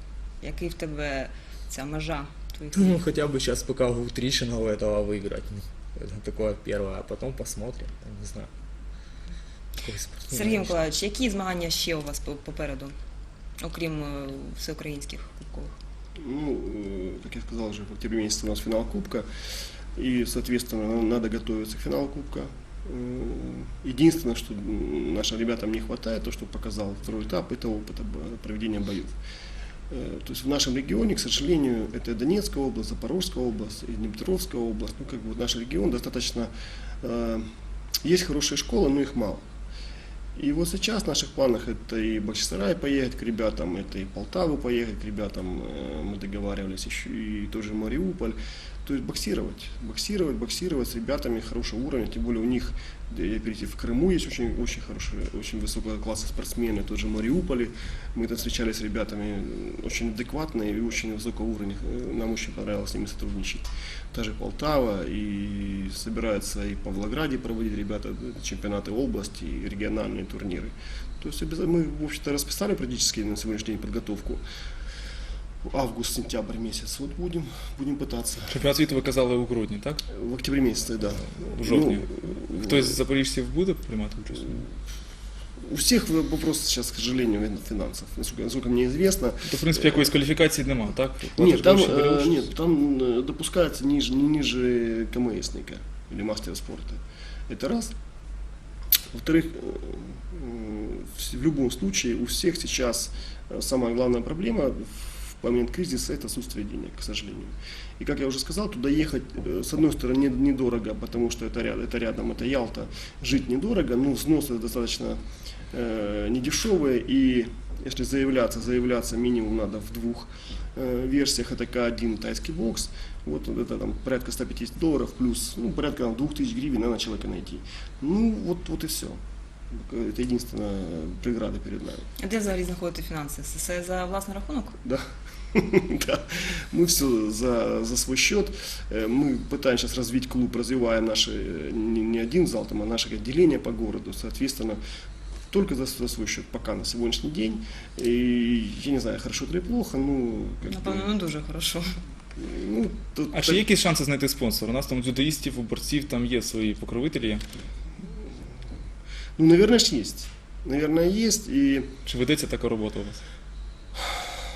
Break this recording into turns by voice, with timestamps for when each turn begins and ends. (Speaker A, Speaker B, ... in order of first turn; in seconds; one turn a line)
Speaker A: 0.4-3.1
Speaker B: 2.7-8.5
Speaker B: 9.8-10.8
Speaker A: 10.3-12.9
Speaker A: 13.6-15.7
Speaker C: 16.2-19.3
Speaker C: 19.9-29.1
Speaker C: 29.9-36.5
Speaker C: 37.0-37.5
Speaker C: 38.0-39.5
Speaker C: 40.3-74.4
Speaker C: 75.6-78.5
Speaker D: 78.5-80.0
Speaker C: 80.1-82.9
Speaker D: 81.3-84.7
Speaker C: 85.6-90.2
Speaker D: 89.5-92.5
Speaker C: 91.4-97.9
Speaker C: 99.1-115.2
Speaker C: 115.7-129.2
Speaker C: 129.7-132.1
Speaker A: 132.2-134.8
Speaker C: 134.8-144.8
Speaker C: 145.5-151.1
Speaker A: 150.7-151.9
Speaker C: 152.4-153.6
Speaker D: 153.3-157.4
Speaker C: 159.4-161.9
Speaker D: 162.1-163.2